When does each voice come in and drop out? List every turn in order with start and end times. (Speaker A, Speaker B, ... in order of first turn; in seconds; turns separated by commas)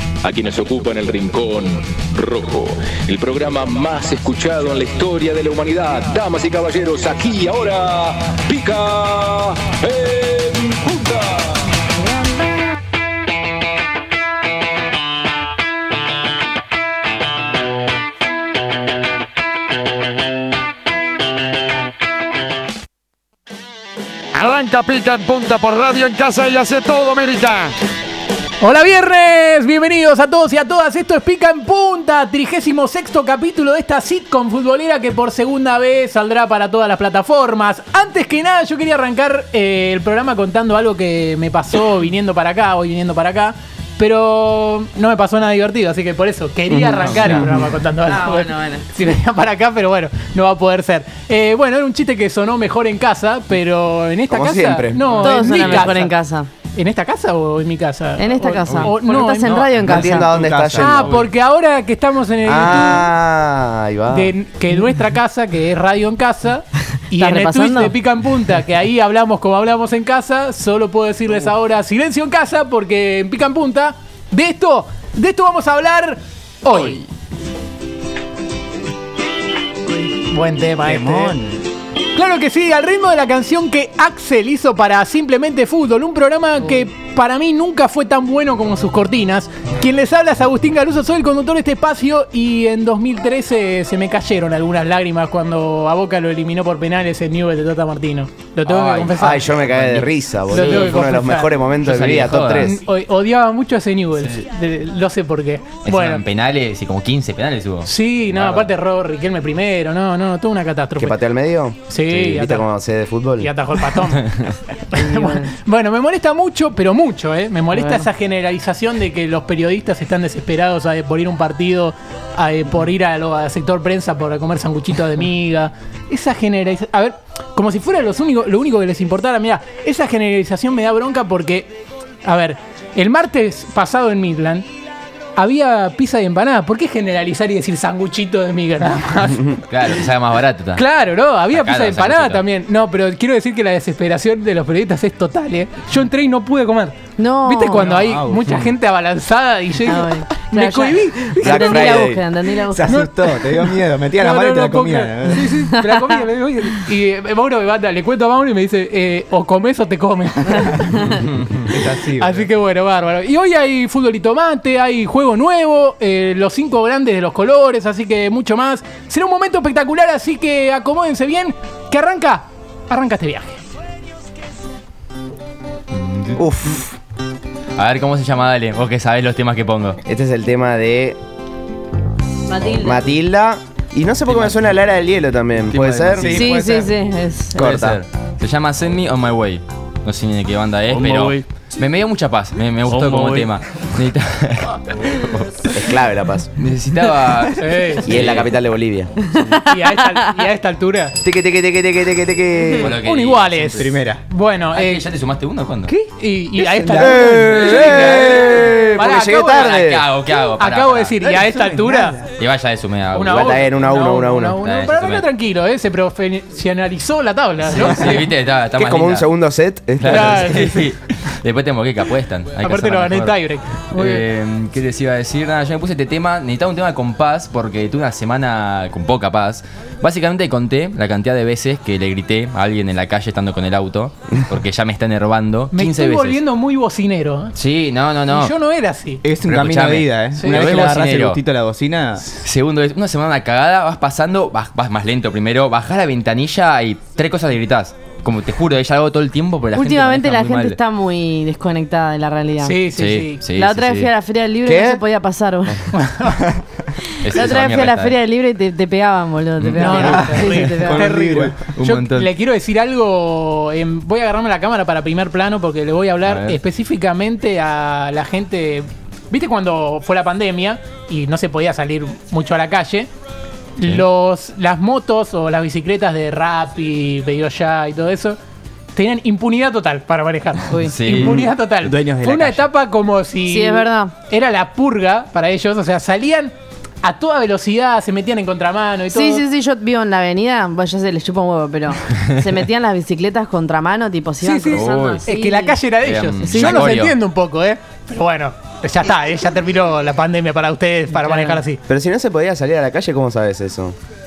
Speaker A: 0.2-11.5, Speaker B: 24.3-27.7, Speaker C: 28.6-56.1, Speaker D: 46.7-47.5, Speaker E: 48.1-48.9, Speaker D: 54.3-56.0, Speaker E: 55.2-56.5, Speaker C: 56.7-59.7, Speaker E: 58.2-60.3, Speaker F: 59.5-61.3, Speaker D: 59.8-61.2, Speaker C: 60.8-63.1, Speaker D: 62.4-64.3, Speaker C: 64.1-77.0, Speaker E: 67.2-68.0, Speaker C: 79.8-81.4, Speaker F: 80.8-81.7, Speaker C: 82.2-99.6, Speaker G: 98.7-101.0, Speaker D: 99.2-102.8, Speaker C: 100.5-101.6, Speaker G: 101.8-102.8, Speaker C: 102.6-106.2, Speaker G: 104.2-104.4, Speaker G: 105.8-108.7, Speaker C: 107.8-111.2, Speaker D: 111.0-113.5, Speaker C: 111.9-112.7, Speaker C: 113.4-134.7, Speaker E: 114.9-115.5, Speaker E: 117.7-118.0, Speaker C: 135.4-139.9, Speaker G: 139.7-140.8, Speaker C: 140.7-152.1, Speaker G: 141.5-142.4, Speaker E: 147.2-148.0, Speaker F: 147.8-148.7, Speaker E: 149.8-153.0, Speaker D: 151.4-152.2, Speaker F: 152.7-155.6, Speaker C: 152.9-153.5, Speaker C: 154.1-161.2, Speaker E: 155.4-156.2, Speaker F: 161.6-162.4, Speaker C: 162.2-173.6, Speaker G: 175.9-176.5, Speaker D: 176.4-176.9, Speaker G: 177.8-180.0, Speaker D: 180.1-181.2, Speaker E: 182.5-183.1, Speaker D: 182.7-186.4, Speaker G: 184.3-184.6, Speaker G: 185.7-186.5, Speaker F: 186.2-186.9, Speaker E: 186.3-187.6, Speaker D: 187.6-188.0, Speaker G: 187.6-195.7, Speaker A: 190.9-191.3, Speaker A: 193.0-193.4, Speaker D: 195.7-196.5, Speaker G: 196.6-198.6, Speaker C: 197.6-198.1, Speaker D: 198.0-199.1, Speaker E: 199.2-200.3, Speaker C: 199.7-201.2, Speaker D: 201.2-202.9, Speaker G: 202.8-203.9, Speaker C: 202.9-205.0, Speaker F: 203.8-204.2, Speaker G: 204.7-205.9, Speaker C: 205.8-209.7, Speaker F: 206.6-208.8, Speaker D: 206.9-210.1, Speaker G: 209.2-211.2, Speaker C: 210.3-212.2, Speaker F: 211.2-212.2, Speaker G: 212.3-213.7, Speaker C: 213.1-218.3, Speaker D: 213.2-214.7, Speaker G: 214.6-215.2, Speaker G: 217.7-219.3, Speaker D: 218.7-220.7, Speaker G: 220.0-223.4, Speaker C: 220.1-220.9, Speaker C: 222.6-224.3, Speaker G: 223.9-236.4, Speaker C: 235.7-237.6, Speaker G: 237.6-238.5, Speaker C: 238.3-239.2, Speaker F: 239.2-242.2, Speaker G: 239.4-241.4, Speaker C: 240.4-240.8, Speaker G: 242.4-250.8, Speaker E: 249.7-252.8, Speaker C: 252.6-253.5, Speaker G: 252.9-254.1, Speaker E: 253.5-255.9, Speaker D: 254.7-255.0, Speaker C: 255.9-256.5, Speaker F: 256.4-256.7, Speaker E: 257.2-261.1, Speaker G: 257.2-258.2, Speaker G: 259.6-259.9, Speaker C: 259.8-273.1, Speaker F: 259.9-262.3, Speaker G: 266.2-266.6, Speaker C: 273.8-278.4, Speaker C: 278.9-289.4, Speaker E: 280.7-280.9, Speaker G: 280.9-281.5, Speaker F: 281.2-282.7, Speaker E: 283.4-284.1, Speaker E: 289.1-295.8, Speaker C: 294.4-301.8, Speaker G: 294.7-295.2, Speaker G: 296.0-297.2, Speaker E: 296.4-296.9, Speaker E: 301.1-301.6, Speaker D: 301.9-303.9